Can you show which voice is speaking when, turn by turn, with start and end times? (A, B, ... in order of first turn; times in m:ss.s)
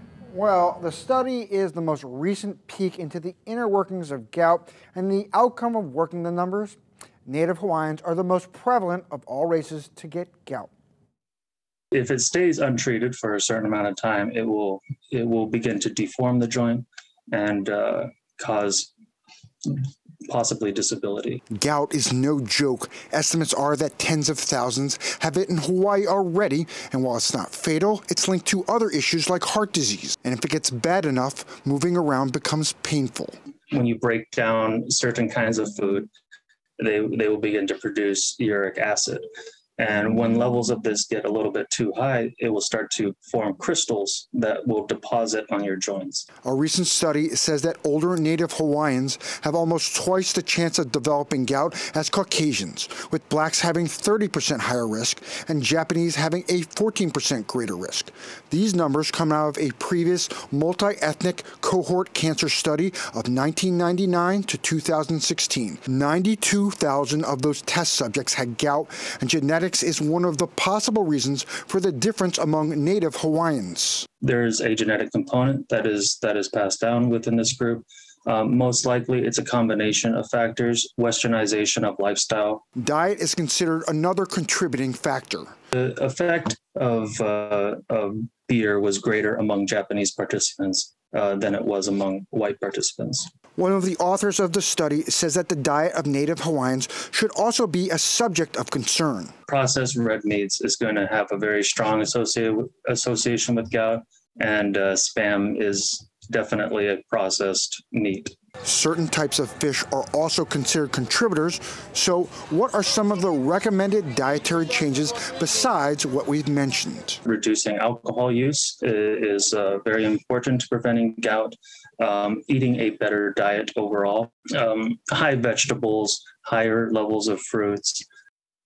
0:00.3-0:06.8 A
0:07.3-0:10.7 A
0:11.9-0:18.9 B
0:19.6-0:21.4 B
0:21.5-0:33.4 A
0:33.7-0:36.1 B
0:36.8-0:39.3 B
0:39.8-0:46.3 B
0:46.4-1:14.1 A
1:14.2-1:22.6 B
1:22.8-1:25.6 A
1:25.7-1:33.3 B
1:33.6-1:39.3 A
1:39.5-1:48.3 B
1:48.6-1:57.2 A
1:57.2-2:08.1 B